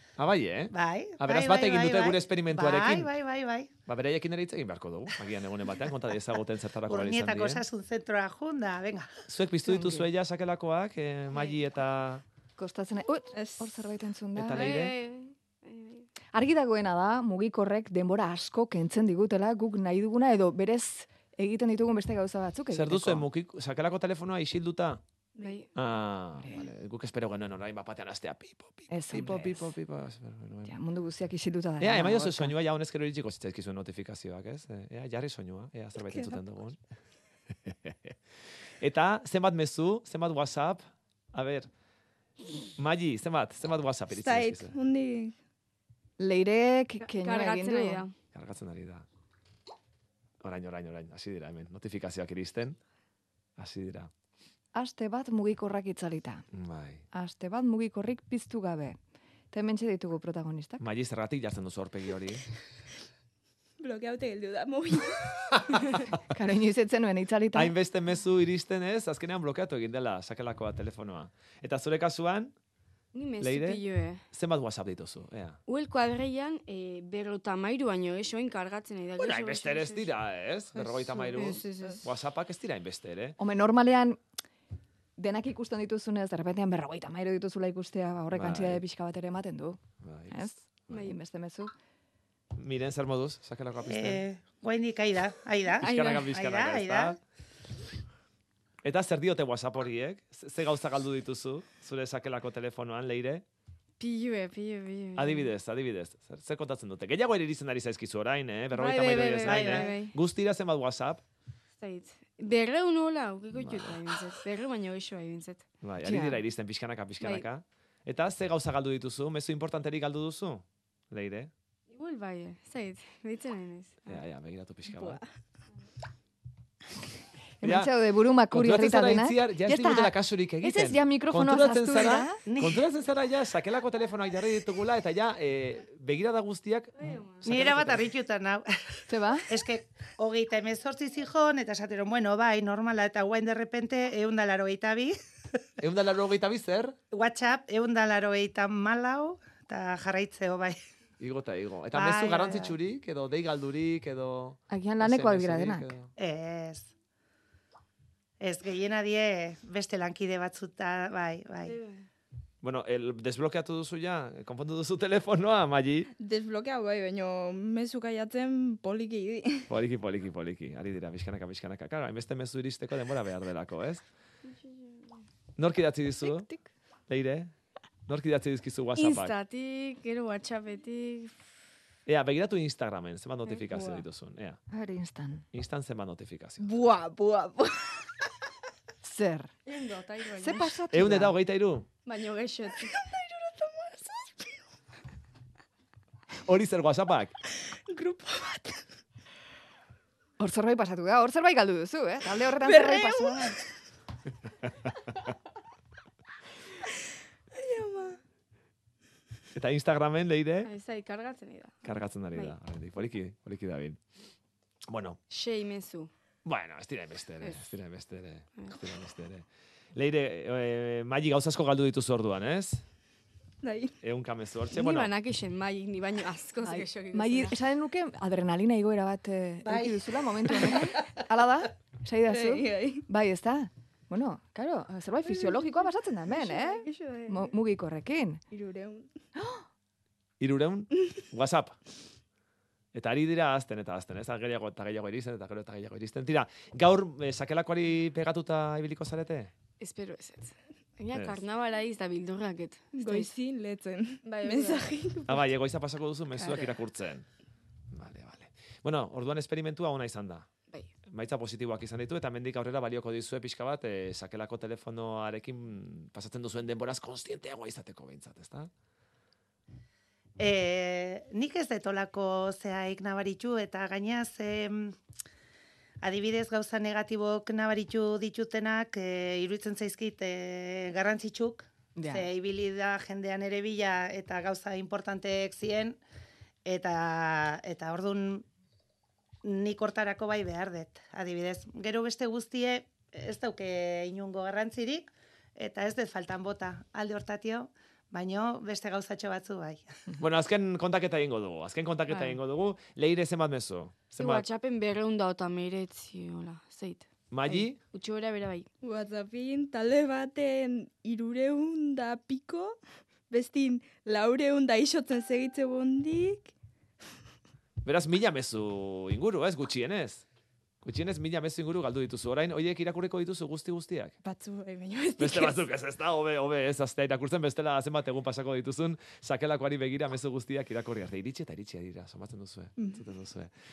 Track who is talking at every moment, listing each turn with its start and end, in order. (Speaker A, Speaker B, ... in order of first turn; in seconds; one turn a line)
Speaker A: 0.2-3.1
Speaker B: 0.7-3.7
Speaker A: 3.9-7.6
Speaker B: 6.9-9.1
Speaker A: 9.3-12.2
Speaker C: 9.7-10.1
Speaker C: 12.6-14.8
Speaker D: 13.3-13.8
Speaker A: 14.3-15.0
Speaker E: 14.6-16.1
Speaker C: 16.3-23.3
Speaker A: 22.7-25.0
Speaker E: 25.4-25.7
Speaker D: 25.4-25.7
Speaker A: 25.8-30.7
Speaker C: 28.9-29.7
Speaker C: 30.7-32.5
Speaker A: 31.8-36.8
Speaker D: 36.0-36.4
Speaker A: 37.7-38.1
Speaker A: 38.8-41.7
Speaker A: 42.8-44.8
Speaker D: 44.1-45.4
Speaker C: 46.2-48.0
Speaker E: 47.0-48.1
Speaker A: 48.3-49.1
Speaker A: 50.4-52.8
Speaker A: 53.6-54.1
Speaker C: 54.8-56.5
Speaker A: 56.5-57.0
Speaker C: 57.1-59.0
Speaker C: 59.5-60.8
Speaker A: 60.8-62.5
Speaker D: 63.8-66.1
Speaker C: 66.3-67.7
Speaker A: 67.5-72.5
Speaker E: 73.1-74.2
Speaker A: 73.4-75.6
Speaker E: 75.7-80.1
Speaker A: 79.2-83.4
Speaker E: 81.1-82.0
Speaker C: 83.4-84.2
Speaker C: 85.2-89.8
Speaker A: 88.3-88.8
Speaker A: 90.0-91.1
Speaker C: 90.3-91.7
Speaker A: 92.5-94.2
Speaker B: 93.9-97.2
Speaker A: 95.8-97.2
Speaker D: 95.8-96.3
Speaker A: 98.8-103.4
Speaker E: 104.0-105.5
Speaker A: 105.2-111.2
Speaker E: 108.7-110.1
Speaker B: 109.4-110.0
Speaker E: 111.8-115.6
Speaker A: 113.5-114.2
Speaker A: 115.8-121.5
Speaker C: 116.0-116.4
Speaker E: 117.2-117.5
Speaker E: 121.9-124.2
Speaker A: 124.1-125.2
Speaker D: 124.9-125.3
Speaker C: 127.6-132.4
Speaker A: 127.6-127.9
Speaker A: 128.5-138.1
Speaker B: 132.4-132.8
Speaker E: 137.0-137.6
Speaker B: 137.4-145.1
Speaker C: 139.1-139.5
Speaker A: 145.8-147.0
Speaker B: 147.1-150.8
Speaker A: 151.2-156.1
Speaker B: 151.9-152.8
Speaker C: 154.7-155.9
Speaker B: 156.2-156.9
Speaker B: 158.4-161.8
Speaker E: 161.6-162.0
Speaker A: 162.6-166.1
Speaker D: 166.2-169.7
Speaker A: 169.7-174.0
Speaker A: 175.6-176.5
Speaker A: 177.1-177.5
Speaker A: 178.1-179.3
Speaker E: 179.0-181.3
Speaker A: 182.1-184.6
Speaker E: 183.7-184.0
Speaker C: 184.7-185.4
Speaker A: 185.5-186.6
Speaker D: 186.7-188.1
Speaker C: 189.0-189.5
Speaker E: 189.6-190.8
Speaker C: 190.4-191.4
Speaker A: 190.9-191.9
Speaker E: 192.1-192.9
Speaker D: 192.7-194.6
Speaker A: 196.4-197.3
Speaker D: 197.4-198.9
Speaker C: 200.4-203.6
Speaker D: 202.6-203.7
Speaker D: 207.5-208.2
Speaker A: 209.6-210.7
Speaker E: 210.6-211.8
Speaker A: 211.8-214.0
Speaker A: 214.9-215.2
Speaker E: 215.3-216.1
Speaker A: 216.5-222.8
Speaker D: 223.6-224.0
Speaker A: 224.0-225.1
Speaker E: 224.7-227.5
Speaker C: 226.6-238.4
Speaker B: 229.6-230.1
Speaker D: 232.2-233.1
Speaker D: 235.2-237.6
Speaker D: 238.5-239.1
Speaker C: 239.4-239.6
Speaker A: 240.4-241.8
Speaker A: 242.9-249.5
Speaker E: 249.8-253.3
Speaker A: 251.1-251.4
Speaker D: 252.9-255.5
Speaker E: 254.2-255.0
Speaker A: 255.3-257.2
Speaker D: 256.3-256.8
Speaker A: 257.9-260.5
Speaker A: 261.1-268.7
Speaker B: 270.4-275.0
Speaker B: 276.0-286.0
Speaker C: 282.0-282.3
Speaker B: 286.6-288.4
Speaker B: 289.4-299.9
Speaker A: 300.2-304.5
Speaker E: 304.2-307.1
Speaker A: 307.3-307.8
Speaker E: 307.9-308.7
Speaker D: 308.8-312.8
Speaker D: 313.3-316.5
Speaker A: 317.8-320.2
Speaker A: 320.8-324.1
Speaker D: 324.2-325.7
Speaker A: 325.2-333.5
Speaker D: 332.8-333.0